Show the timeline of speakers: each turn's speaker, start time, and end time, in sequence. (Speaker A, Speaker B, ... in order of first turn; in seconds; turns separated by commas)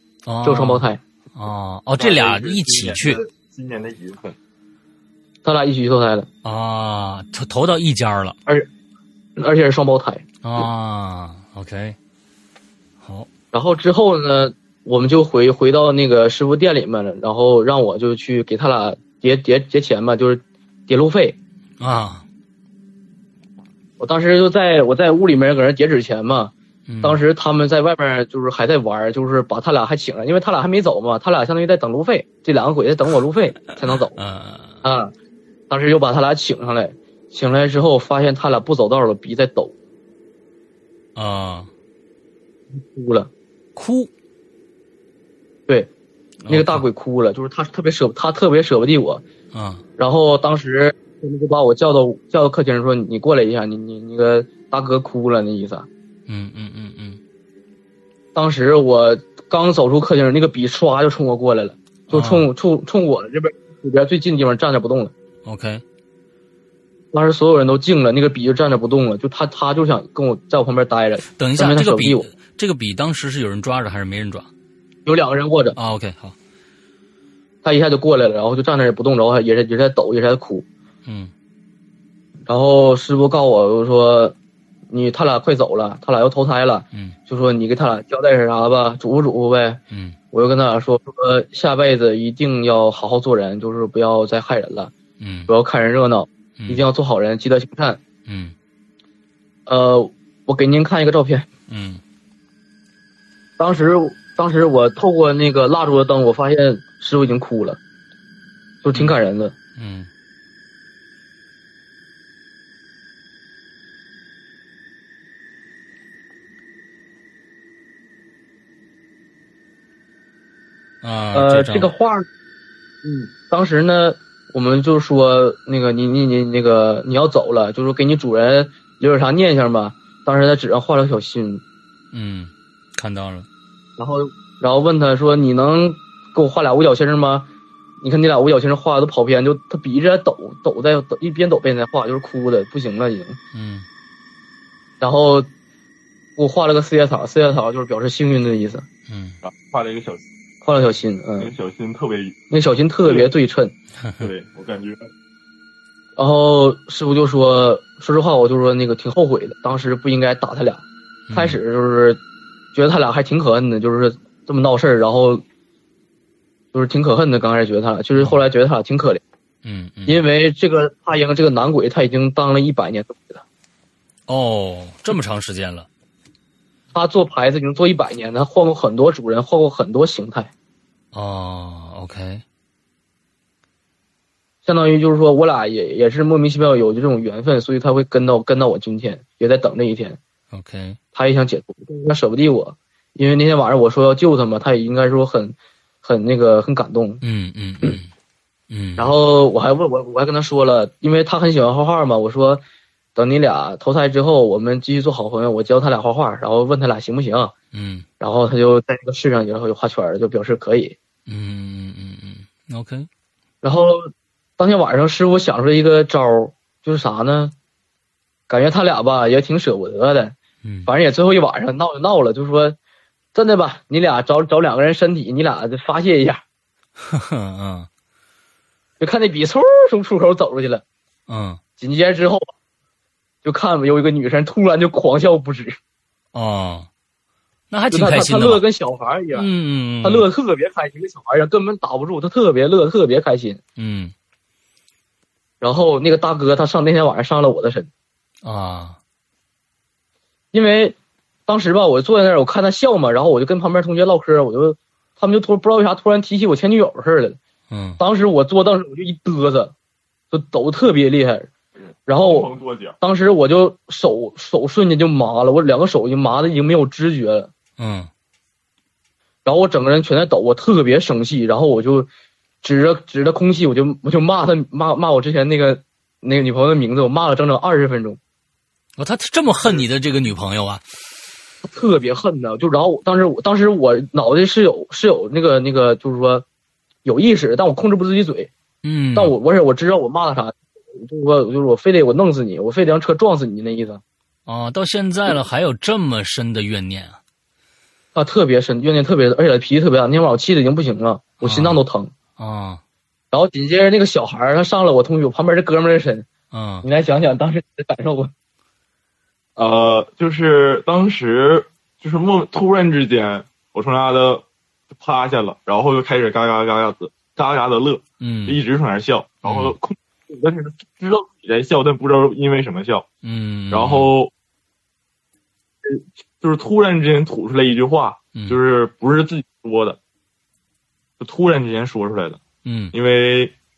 Speaker A: 0.2-3.2, Speaker B: 0.4-1.0, Speaker C: 2.0-4.3, Speaker B: 5.4-6.3, Speaker A: 6.4-8.4, Speaker B: 9.4-10.2, Speaker A: 10.4-12.0, Speaker A: 13.0-13.3, Speaker B: 13.5-21.4, Speaker A: 21.8-22.2, Speaker B: 24.0-34.2, Speaker A: 26.9-27.2, Speaker A: 34.1-34.8, Speaker B: 34.8-35.1, Speaker B: 35.7-39.7, Speaker A: 41.1-41.7, Speaker B: 42.7-43.3, Speaker A: 43.8-44.1, Speaker A: 46.4-46.8, Speaker B: 46.5-49.2, Speaker A: 49.5-49.8, Speaker B: 50.0-55.9, Speaker A: 56.3-57.2, Speaker B: 58.3-65.1, Speaker A: 62.1-62.5, Speaker A: 65.4-65.8, Speaker B: 67.1-72.3, Speaker A: 71.2-74.5, Speaker B: 75.0-75.8, Speaker A: 75.8-76.3, Speaker B: 77.6-80.7, Speaker A: 81.0-81.3, Speaker B: 82.5-84.3, Speaker B: 84.9-89.8, Speaker A: 89.9-90.2, Speaker B: 90.3-94.9, Speaker A: 95.2-95.5, Speaker B: 95.5-98.0, Speaker A: 98.2-98.5, Speaker B: 99.7-101.5, Speaker A: 101.7-102.0, Speaker B: 103.6-107.8, Speaker B: 108.8-109.5, Speaker A: 109.8-110.1, Speaker A: 121.0-121.9, Speaker B: 121.3-122.3, Speaker B: 123.0-131.6, Speaker A: 132.1-133.5, Speaker B: 134.0-137.5, Speaker B: 138.0-143.4, Speaker A: 143.5-143.8, Speaker B: 145.0-145.5, Speaker B: 146.4-148.8, Speaker A: 149.1-149.4, Speaker C: 149.4-150.2, Speaker B: 150.6-151.5, Speaker C: 151.4-152.4, Speaker B: 152.5-153.7, Speaker A: 154.0-154.3, Speaker C: 154.2-155.1, Speaker B: 156.2-162.2, Speaker A: 161.3-161.6, Speaker B: 162.7-165.4, Speaker B: 166.7-169.2, Speaker A: 168.1-168.4, Speaker A: 169.6-170.2, Speaker B: 170.1-173.4, Speaker A: 174.3-175.9, Speaker B: 176.9-180.5, Speaker A: 181.1-182.4, Speaker B: 184.6-190.2, Speaker A: 190.5-191.0, Speaker B: 191.1-197.2, Speaker A: 197.2-198.1, Speaker A: 198.7-199.1, Speaker B: 199.0-202.6, Speaker B: 203.2-207.5, Speaker A: 207.7-208.1, Speaker B: 208.2-210.9, Speaker A: 211.3-213.1, Speaker B: 213.6-217.5, Speaker B: 218.5-222.8, Speaker A: 220.6-220.9, Speaker B: 223.3-226.4, Speaker A: 227.0-227.9, Speaker B: 229.0-230.8, Speaker A: 231.3-231.6, Speaker B: 231.8-232.5, Speaker B: 233.4-235.8, Speaker A: 236.3-236.9, Speaker A: 237.7-238.6, Speaker B: 237.9-239.5, Speaker A: 239.3-240.2, Speaker B: 240.0-243.6, Speaker A: 243.8-244.1, Speaker B: 245.6-247.9, Speaker A: 248.4-249.0, Speaker B: 250.5-250.9, Speaker B: 251.5-257.4, Speaker A: 257.7-258.0, Speaker B: 258.0-259.7, Speaker B: 260.3-261.5, Speaker B: 262.1-262.5, Speaker C: 262.1-263.0, Speaker B: 263.0-267.5, Speaker A: 267.8-268.1, Speaker B: 269.4-272.1, Speaker B: 272.6-278.2, Speaker A: 279.0-280.9, Speaker B: 281.6-286.4, Speaker B: 287.0-288.5, Speaker A: 288.8-289.3, Speaker B: 289.1-294.0, Speaker A: 294.4-297.2, Speaker B: 298.1-302.1, Speaker A: 301.4-301.8, Speaker A: 302.4-302.8, Speaker B: 303.3-306.3, Speaker A: 306.5-306.9, Speaker B: 306.8-308.3, Speaker C: 309.6-323.1, Speaker A: 318.2-318.6, Speaker A: 319.4-319.8, Speaker A: 323.2-324.1, Speaker C: 323.7-324.3, Speaker C: 325.8-330.0, Speaker C: 331.2-332.4, Speaker A: 332.6-332.9, Speaker C: 332.9-333.5